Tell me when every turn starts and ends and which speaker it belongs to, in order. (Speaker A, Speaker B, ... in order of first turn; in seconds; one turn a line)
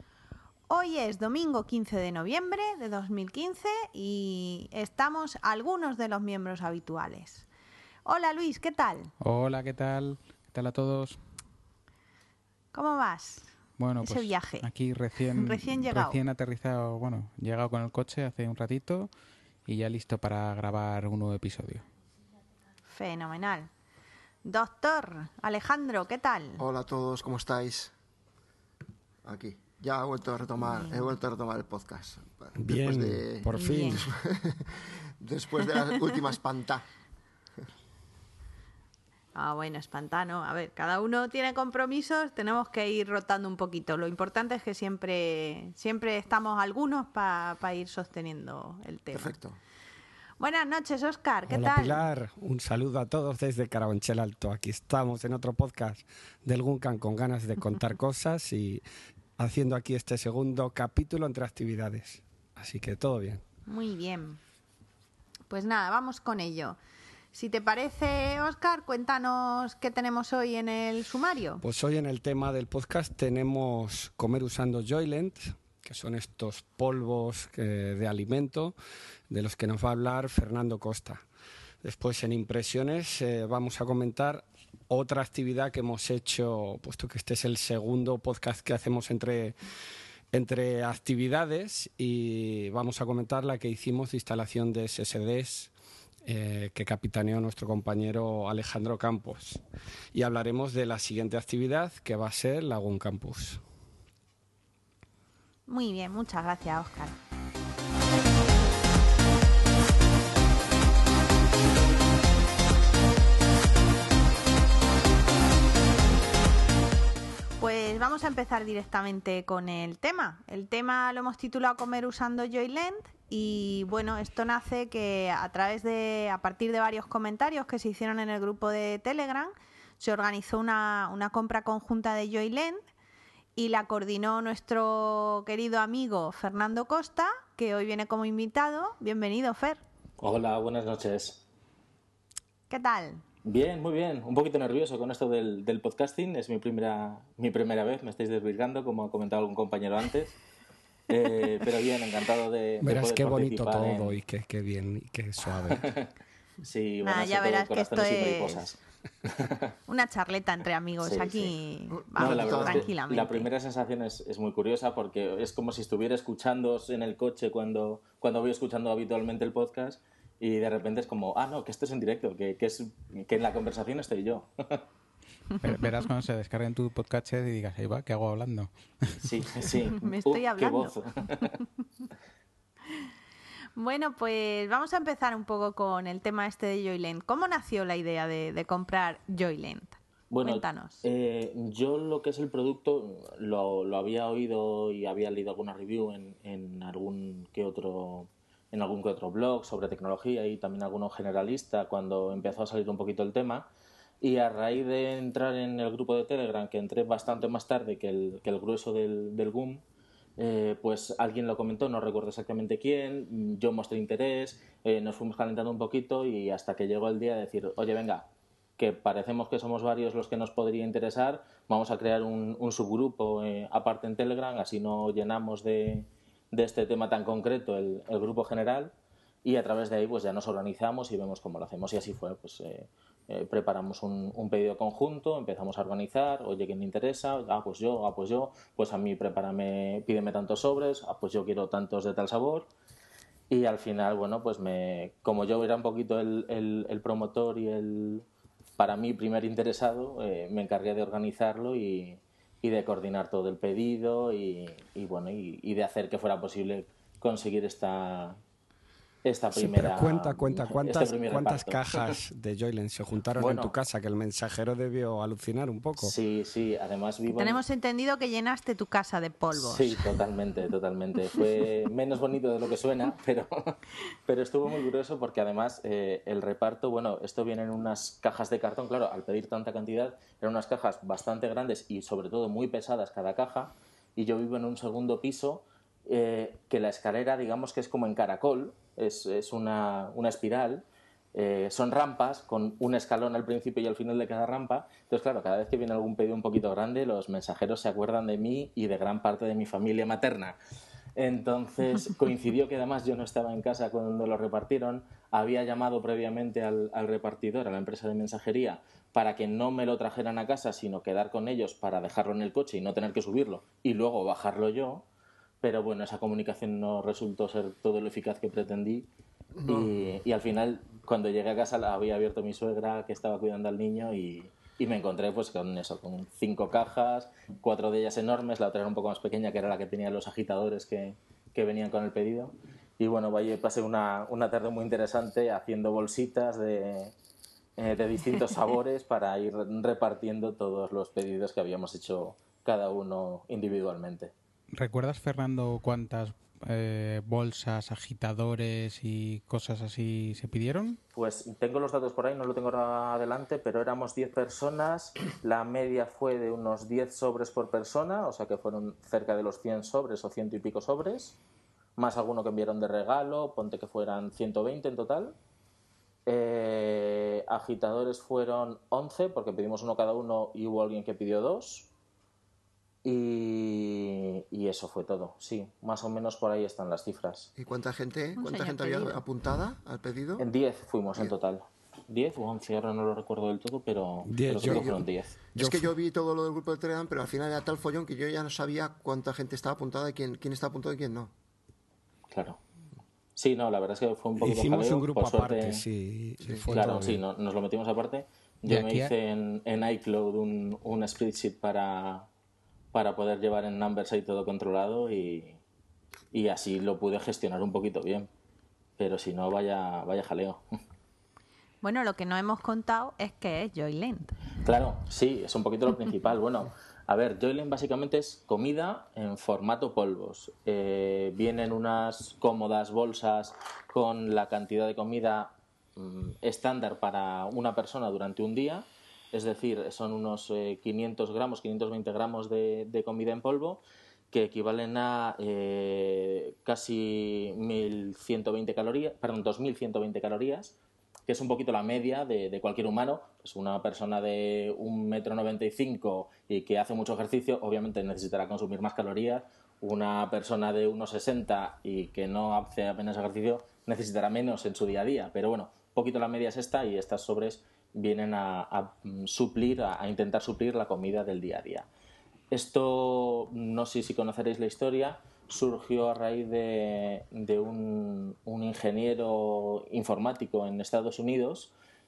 Speaker A: 0.7-7.5
Speaker A: 8.0-9.1
Speaker B: 9.2-11.2
Speaker A: 12.7-14.7
Speaker B: 13.8-19.1
Speaker A: 15.3-16.2
Speaker B: 19.6-21.9
Speaker A: 22.9-23.7
Speaker A: 24.4-26.6
Speaker C: 26.6-27.9
Speaker C: 29.2-36.8
Speaker D: 32.5-34.1
Speaker A: 33.5-34.1
Speaker A: 39.3-49.3
Speaker C: 49.1-49.6
Speaker A: 50.4-52.0
Speaker D: 51.5-58.8
Speaker D: 59.4-63.4
Speaker A: 63.6-64.4
Speaker A: 65.5-66.8
Speaker A: 67.3-71.6
Speaker D: 71.6-78.7
Speaker D: 79.3-81.2
Speaker D: 81.8-89.5
Speaker D: 90.3-95.7
Speaker D: 96.2-99.6
Speaker D: 100.1-103.6
Speaker A: 105.7-107.2
Speaker A: 117.6-132.8
Speaker A: 133.6-139.8
Speaker E: 140.2-141.4
Speaker A: 142.7-143.2
Speaker E: 143.4-150.3
Speaker E: 151.1-154.1
Speaker D: 152.8-155.9
Speaker E: 155.7-156.1
Speaker E: 156.6-159.7
Speaker A: 157.0-158.6
Speaker A: 159.9-163.5
Speaker E: 161.0-161.5
Speaker C: 161.9-162.9
Speaker E: 162.2-174.8
Speaker B: 175.6-179.7
Speaker E: 179.2-181.5
Speaker A: 180.0-181.5
Speaker A: 183.8-191.0
Speaker E: 190.3-203.7
Speaker E: 204.2-209.8
Speaker E: 210.4-242.7
Speaker E: 243.5-248.2
Speaker E: 248.8-258.4
Speaker E: 259.2-262.1
Speaker D: 259.5-266.1
Speaker E: 263.4-263.7
Speaker E: 266.0-267.6
Speaker A: 267.3-270.1
Speaker E: 269.5-300.6
Speaker E: 301.1-315.0
Speaker E: 315.6-319.1
Speaker C: 319.6-319.9
Speaker E: 319.6-337.1
Speaker E: 337.8-344.3
Speaker B: 344.8-351.0
Speaker E: 351.1-361.4
Speaker E: 362.0-365.4
Speaker E: 366.3-371.9
Speaker E: 373.0-377.5
Speaker C: 377.6-380.5
Speaker A: 378.4-379.2
Speaker E: 380.4-385.4
Speaker D: 384.2-385.0
Speaker C: 384.6-385.0
Speaker C: 385.5-391.3
Speaker D: 385.6-385.9
Speaker E: 392.3-392.6
Speaker E: 393.4-395.8
Speaker D: 394.4-397.2
Speaker E: 396.7-402.3
Speaker B: 398.6-399.1
Speaker E: 402.9-405.6
Speaker E: 406.3-408.3
Speaker E: 409.0-410.8
Speaker A: 411.8-414.4
Speaker E: 414.6-440.7
Speaker E: 441.3-461.9
Speaker E: 462.5-471.7